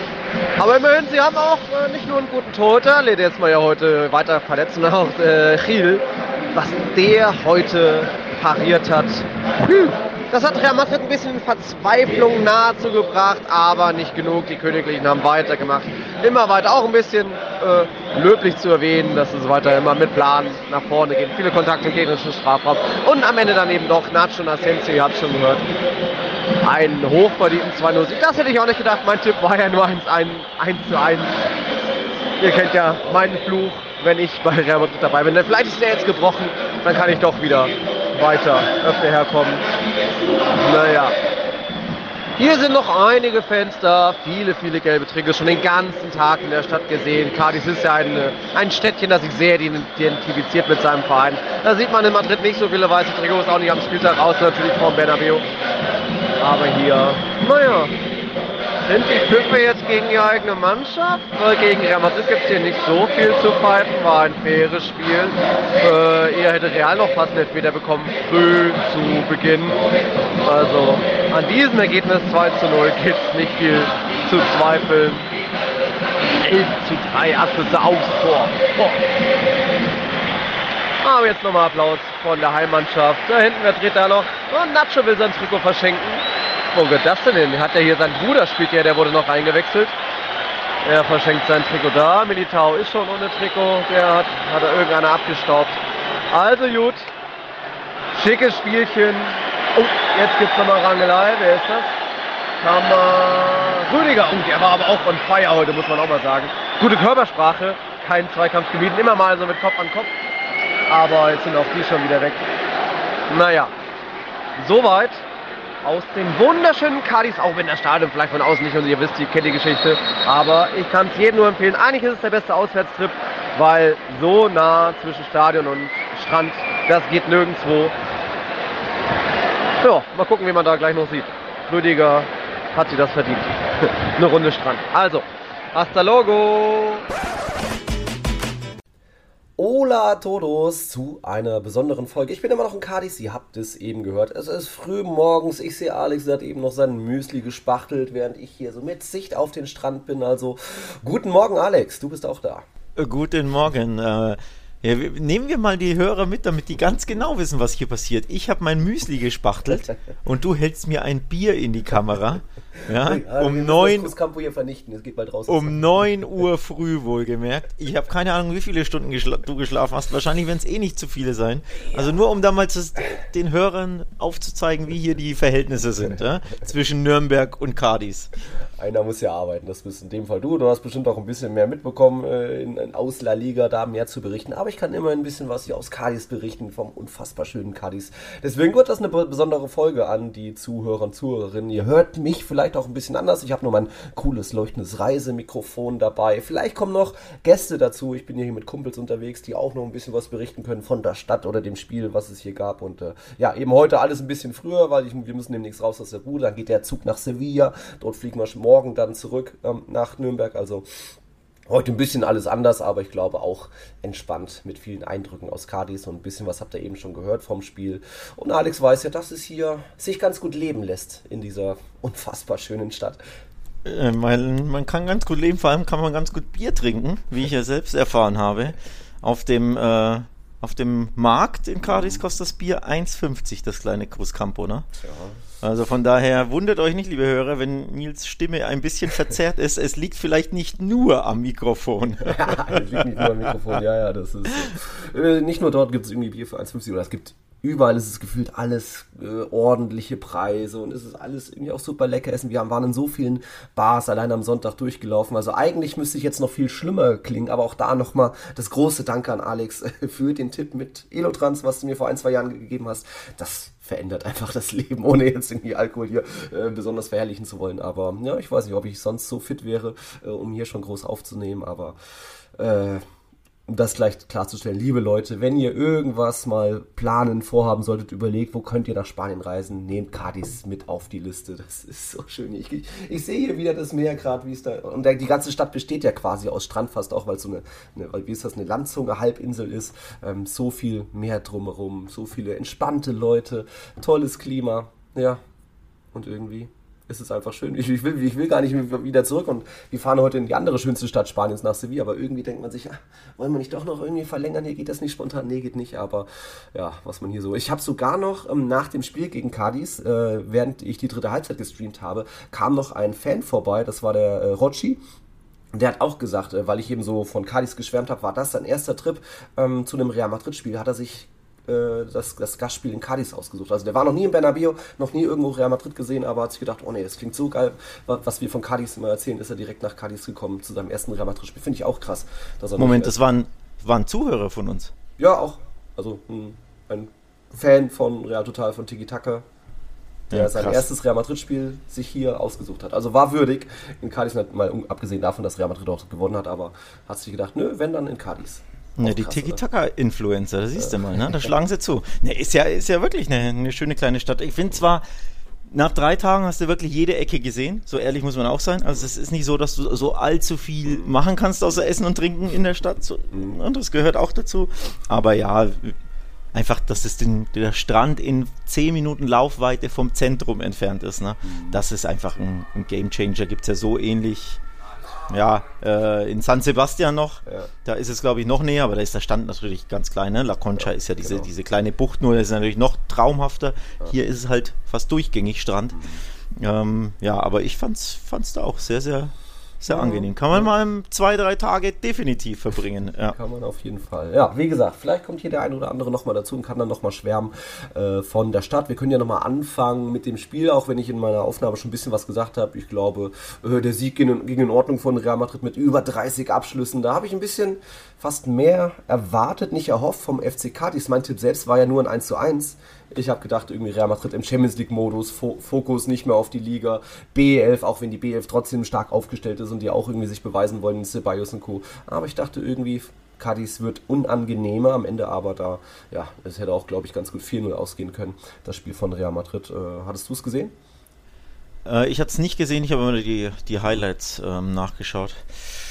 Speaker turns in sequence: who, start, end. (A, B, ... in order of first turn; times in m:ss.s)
0:00.6-0:25.7 A
0:26.6-0:31.4 A
0:32.4-0:39.7 A
0:40.6-0:41.2 A
0:42.4-0:55.4 A
0:56.4-0:57.9 A
0:58.8-1:09.9 A
1:10.4-1:15.2 A
1:16.4-1:19.0 A
1:21.0-1:29.9 A
1:30.8-1:35.8 A
1:36.3-1:37.1 A
1:38.1-1:41.9 A
1:42.6-1:50.1 A
1:50.9-1:52.5 A
1:53.3-1:53.7 A
1:54.6-1:55.2 A
1:55.8-2:07.9 A
2:09.8-2:17.0 A
2:19.6-2:32.6 B
2:33.0-2:44.1 C
2:42.9-2:45.9 B
2:45.5-2:58.3 C
2:58.8-3:30.8 B
3:31.7-3:43.2 B
3:43.8-3:54.9 C
3:55.0-3:55.4 B
3:55.6-4:03.2 C
4:02.2-4:32.0 B
4:32.6-4:33.0 B
4:33.7-4:55.4 B
4:56.1-5:15.0 B
5:15.7-5:33.1 B
5:32.8-5:34.9 C
5:35.2-5:39.4 B
5:40.3-5:40.8 C
5:40.3-5:49.6 B
5:49.0-5:55.0 C
5:55.7-6:05.9 C
6:06.5-6:14.6 C
6:11.5-6:11.8 B
6:15.3-6:26.0 C
6:20.8-6:21.5 B
6:26.6-6:33.4 C
6:29.9-6:30.7 B
6:33.3-7:10.7 B
7:11.8-7:15.4 C